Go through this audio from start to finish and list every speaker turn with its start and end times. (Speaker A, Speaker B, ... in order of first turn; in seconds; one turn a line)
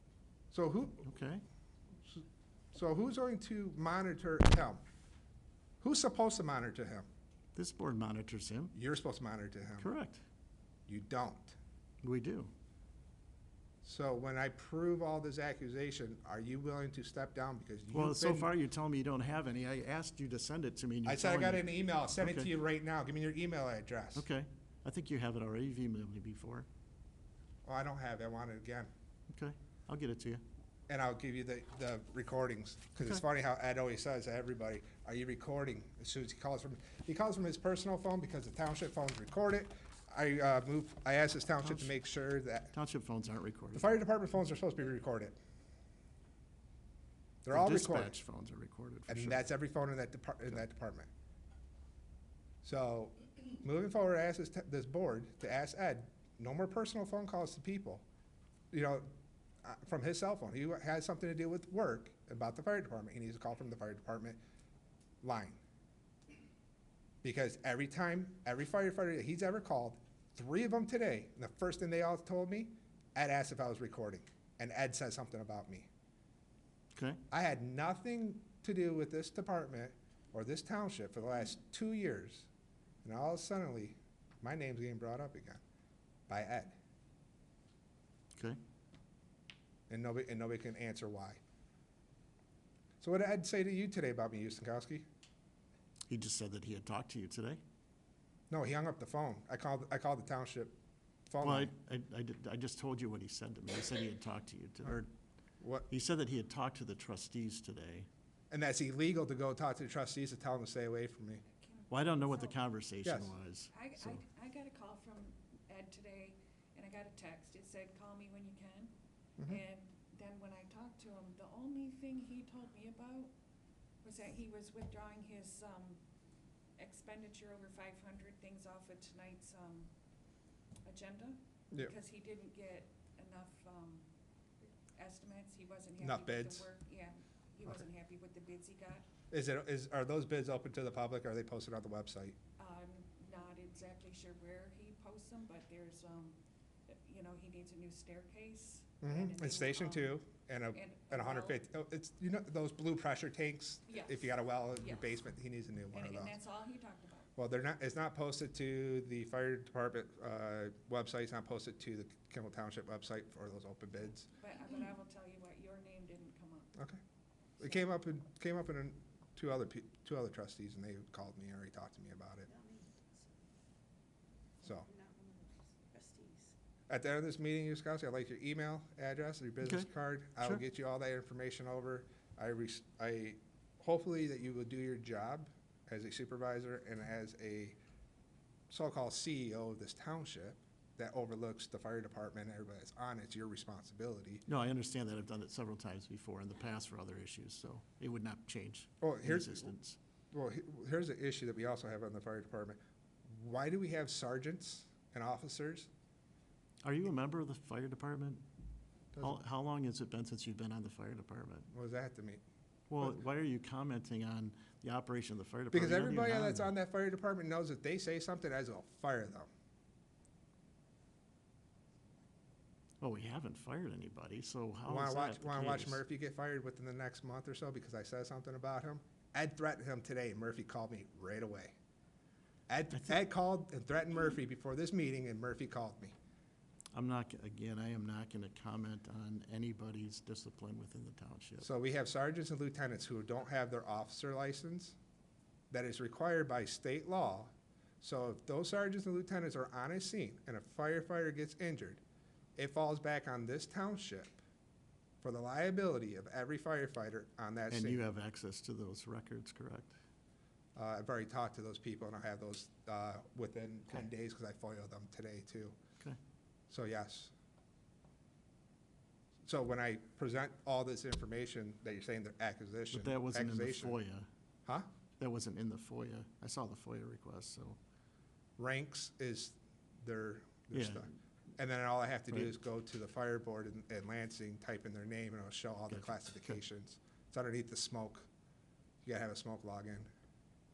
Speaker A: 0.5-1.1
Speaker B: 1.1-1.4
Speaker A: 2.7-4.8
Speaker A: 5.8-7.1
Speaker B: 7.5-8.7
Speaker A: 8.7-9.9
Speaker B: 9.8-10.2
Speaker A: 10.9-11.6
Speaker B: 12.0-12.5
Speaker A: 13.8-18.5
Speaker B: 17.9-22.5
Speaker A: 21.1-24.2
Speaker B: 24.1-26.7
Speaker A: 27.6-28.9
Speaker B: 29.3-30.4
Speaker A: 30.9-42.7
Speaker B: 41.6-42.0
Speaker B: 42.7-43.9
Speaker A: 43.7-45.4
Speaker A: 47.4-48.2
Speaker B: 47.5-49.4
Speaker A: 49.1-51.1
Speaker A: 52.6-58.0
Speaker A: 58.7-59.1
Speaker A: 59.6-64.4
Speaker A: 65.2-65.6
Speaker A: 67.2-75.9
Speaker B: 76.9-77.2
Speaker A: 77.3-82.5
Speaker A: 83.0-85.6
Speaker A: 86.3-86.8
Speaker B: 88.3-88.6
Speaker A: 89.9-91.4
Speaker A: 93.0-95.1
Speaker B: 96.1-97.6
Speaker A: 98.5-100.8
Speaker A: 101.3-101.7
Speaker B: 101.4-105.1
Speaker A: 105.6-105.9
Speaker B: 105.9-108.1
Speaker A: 108.5-111.4
Speaker C: 111.5-112.6
Speaker B: 111.9-114.2
Speaker A: 113.0-113.3
Speaker C: 113.7-118.9
Speaker C: 119.5-123.3
Speaker C: 124.0-126.0
Speaker C: 126.8-129.9
Speaker C: 130.8-134.1
Speaker C: 135.0-139.1
Speaker A: 136.0-136.7
Speaker A: 139.3-142.4
Speaker C: 142.6-150.2
Speaker A: 149.0-156.4
Speaker C: 150.7-151.6
Speaker C: 153.9-155.1
Speaker C: 155.9-157.3
Speaker A: 157.4-164.3
Speaker C: 164.3-166.8
Speaker A: 167.6-172.5
Speaker D: 172.5-173.5
Speaker A: 174.6-174.9
Speaker D: 174.9-176.5
Speaker A: 176.9-187.8
Speaker B: 179.6-179.9
Speaker A: 188.7-194.4
Speaker B: 194.5-200.0
Speaker A: 199.0-199.7
Speaker A: 200.3-205.9
Speaker B: 206.8-208.4
Speaker B: 209.2-211.7
Speaker A: 211.7-212.4
Speaker B: 212.9-216.7
Speaker A: 215.7-219.5
Speaker B: 223.0-226.0
Speaker A: 224.9-231.8
Speaker A: 232.7-236.1
Speaker B: 232.9-233.2
Speaker B: 236.9-241.7
Speaker A: 241.6-245.0
Speaker A: 245.7-252.0
Speaker A: 252.6-254.4
Speaker A: 255.2-258.0
Speaker B: 257.7-259.9
Speaker A: 260.8-265.8
Speaker A: 266.7-267.3
Speaker A: 269.5-274.0
Speaker B: 272.9-274.3
Speaker B: 275.2-277.8
Speaker A: 278.6-288.3
Speaker B: 280.7-281.1
Speaker B: 285.9-286.6
Speaker A: 289.0-290.1